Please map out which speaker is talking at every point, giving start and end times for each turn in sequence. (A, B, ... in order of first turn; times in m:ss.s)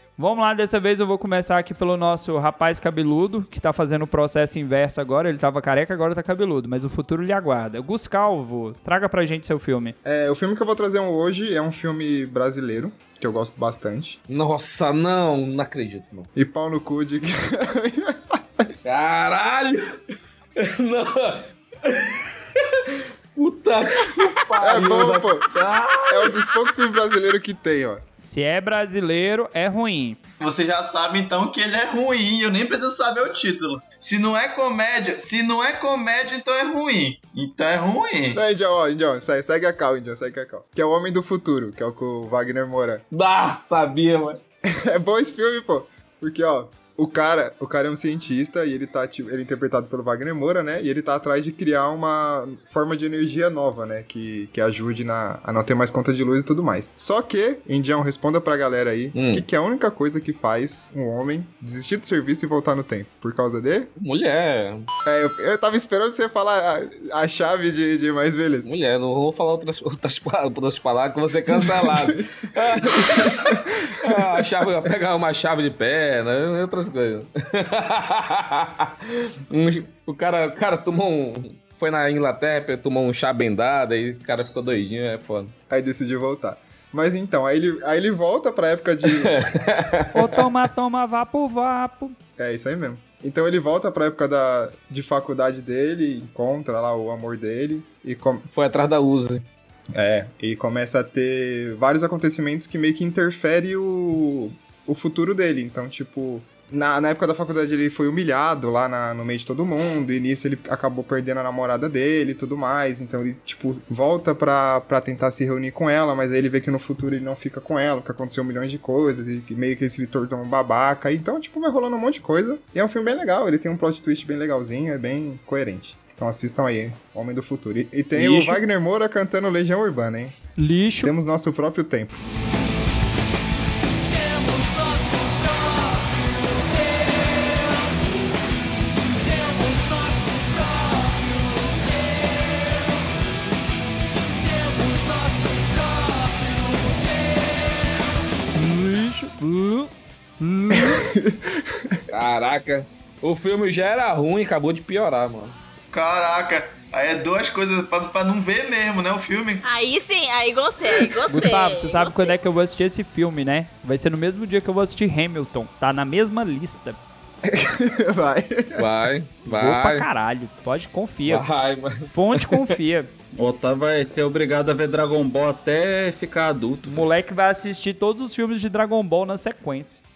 0:00.2-0:09.9 A
0:10.0-0:14.2 B
0:14.3-0:16.3 C
0:16.3-0:18.7 B
0:18.8-0:20.0 C
0:20.6-0:26.3 C
0:24.6-0:25.5 B
0:26.1-0:28.0 B
0:28.2-0:30.2 A
0:30.4-0:38.4 D
0:38.3-0:43.0 B
0:43.1-0:44.4 C
0:44.6-1:03.9 B
0:59.1-0:59.4 C
1:04.0-1:04.9 C
1:05.0-1:08.7 B
1:08.6-1:25.5 C
1:11.7-1:12.2 B
1:12.8-1:14.3 B
1:25.7-1:29.4 B
1:29.1-1:30.5 C
1:30.1-1:32.1 A
1:32.4-1:38.4 B
1:38.5-1:39.4 C
1:39.9-2:10.4 B
2:08.2-2:08.6 C
2:10.6-2:11.1 A
2:11.0-2:12.2 B
2:28.5-2:31.0 A
2:30.7-2:32.0 B
2:32.1-2:35.5 C
2:35.9-2:39.6 D
2:39.6-2:42.4 E
2:41.3-2:47.0 A
2:47.4-2:48.9 B
2:48.8-2:50.1 C
2:49.4-2:51.5 A
2:51.2-2:52.7 C
2:52.1-2:53.1 A
2:53.4-2:57.1 F
2:56.8-3:00.0 A